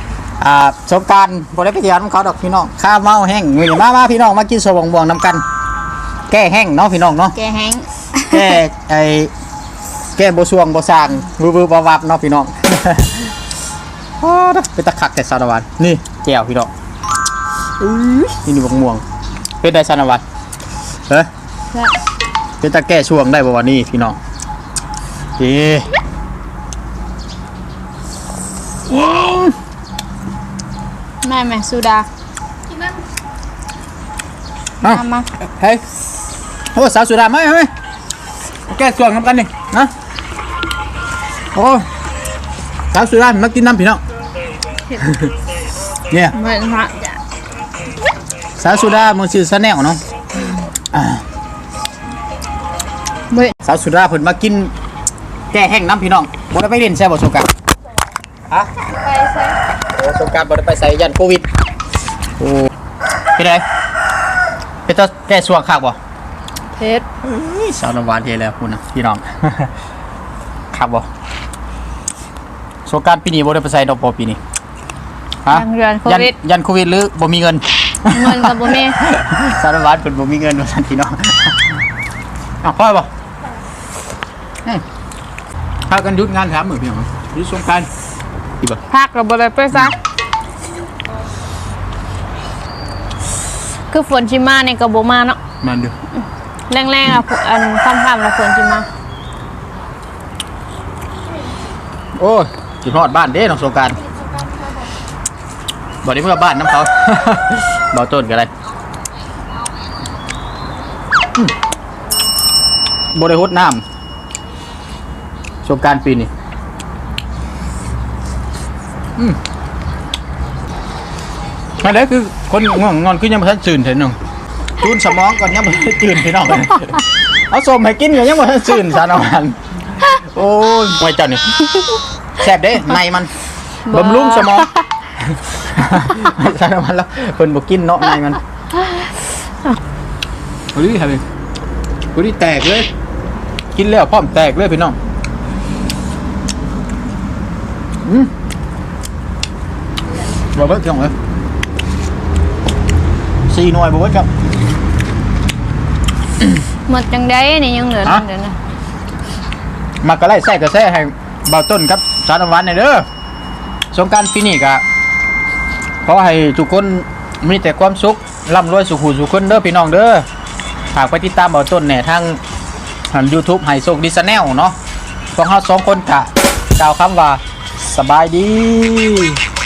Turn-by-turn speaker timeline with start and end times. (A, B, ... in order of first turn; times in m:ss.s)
0:00.4-0:05.4 A
0:06.3-0:07.3 A
0:07.3-0:08.6 B
0:08.3-0:09.3 A
0:10.2-0:13.3 A
0:14.2-0:16.7 A
0:17.8-0:19.0 A
0:19.6-0:20.2 A
0:22.6-0:24.2 A
0:25.4-0:25.9 A
0:28.9-0:29.6 A
0:31.2-0:32.1 B
0:34.8-0:35.3 B
0:34.8-0:35.8 A
0:36.7-0:37.7 A
0:38.7-0:39.9 A
0:41.5-0:41.8 A
0:42.9-0:44.0 A
0:45.0-0:45.3 A
0:46.3-0:47.2 B
0:48.6-0:50.0 A
0:50.9-0:51.2 A
0:53.6-0:54.7 A
0:55.5-0:57.5 A
0:58.9-0:59.6 B
0:59.9-1:01.4 A
1:02.4-1:02.7 A
1:03.4-1:03.6 A
1:04.8-1:06.0 A
1:06.8-1:07.0 B
1:07.3-1:09.7 A
1:10.7-1:11.0 A
1:12.8-1:14.4 A
1:15.4-1:21.6 A
1:15.5-1:16.3 B
1:18.1-1:19.0 B
1:22.6-1:23.1 A
1:25.9-1:27.9 A
1:28.9-1:30.0 B
1:33.9-1:35.4 B
1:35.6-1:35.9 A
1:36.7-1:38.9 B
1:42.2-1:44.0 A
1:46.0-1:48.5 A
1:53.1-1:53.8 A
1:55.6-1:56.3 A
2:01.8-2:04.2 A
2:04.8-2:11.4 A
2:12.4-2:13.3 A
2:13.9-2:14.7 B
2:13.9-2:14.7 A
2:15.2-2:18.4 A
2:20.7-2:21.2 A
2:22.1-2:22.9 A
2:23.7-2:25.0 A
2:28.0-2:28.3 A
2:30.5-2:31.1 A
2:33.5-2:34.3 A
2:36.9-2:38.6 B
2:40.0-2:43.0 A
2:43.9-2:44.8 A
2:46.0-2:50.2 A
2:50.9-2:52.4 A
2:53.1-2:54.8 A
2:55.3-2:59.4 A